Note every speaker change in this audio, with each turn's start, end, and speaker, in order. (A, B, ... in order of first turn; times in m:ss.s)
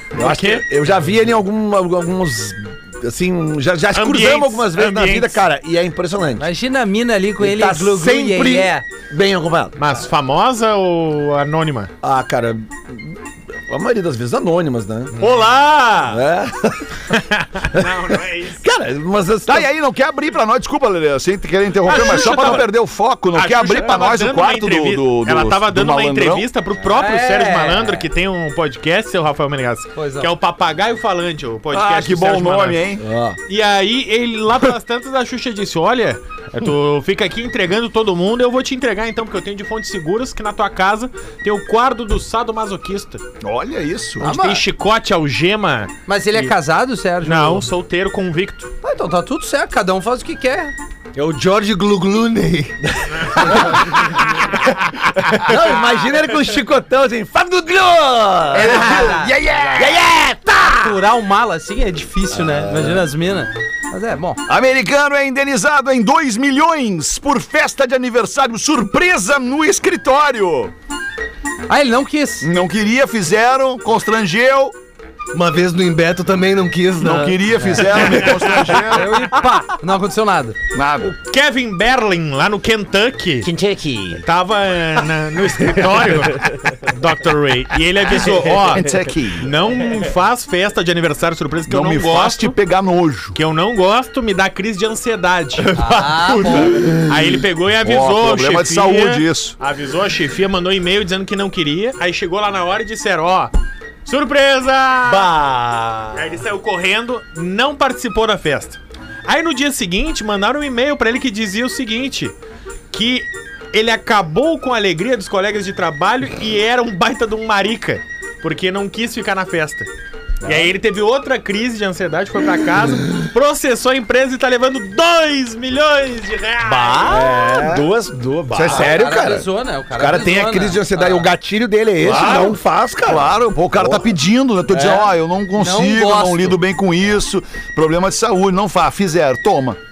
0:00.2-0:06.5 A
0:00.2-0:00.6 B
0:03.9-0:05.4 B
0:06.4-0:08.9 C
0:07.4-0:09.8 A
0:09.8-0:11.9 B
0:12.0-0:15.2 A
0:15.2-0:16.2 B
0:16.1-0:17.1 A
0:17.1-0:18.6 B
0:17.7-0:19.7 A
0:19.5-0:26.5 D
0:21.8-0:22.7 B
0:23.3-0:32.8 B
0:26.9-0:28.1 C
0:30.0-0:30.3 C
0:31.7-0:33.0 D
0:33.0-0:33.4 A
0:33.5-0:43.2 B
0:43.4-0:44.3 D
0:44.2-0:44.6 C
0:44.2-0:46.5 B
0:46.1-0:47.6 C
0:47.2-0:48.7 B
0:48.8-0:50.7 C
0:51.2-0:52.8 E
0:53.4-0:53.7 A
0:53.5-0:53.8 E
0:55.5-0:59.2 A
0:58.5-1:00.0 D
0:58.7-0:59.3 C
0:59.8-1:00.9 A
1:00.7-1:04.4 C
1:02.5-1:03.0 A
1:04.5-1:10.7 D
1:11.7-1:12.5 C
1:12.4-1:14.7 D
1:15.3-1:18.0 E
1:17.0-1:19.3 D
1:18.0-1:18.6 B
1:18.9-1:20.6 C
1:20.7-1:21.1 D
1:21.0-1:23.5 B
1:23.4-1:24.2 E
1:24.2-1:32.6 B
1:28.1-1:29.5 D
1:31.7-1:33.4 D
1:33.4-1:43.5 B
1:35.8-1:36.9 C
1:37.8-1:39.6 D
1:44.0-1:52.4 B
1:45.4-1:46.1 E
1:52.9-1:59.9 B
2:00.4-2:07.8 B
2:06.7-2:14.1 A
2:07.6-2:07.9 E
2:08.6-2:11.3 C
2:12.0-2:19.8 D
2:12.1-2:12.5 B
2:14.7-2:15.1 A
2:15.5-2:16.6 C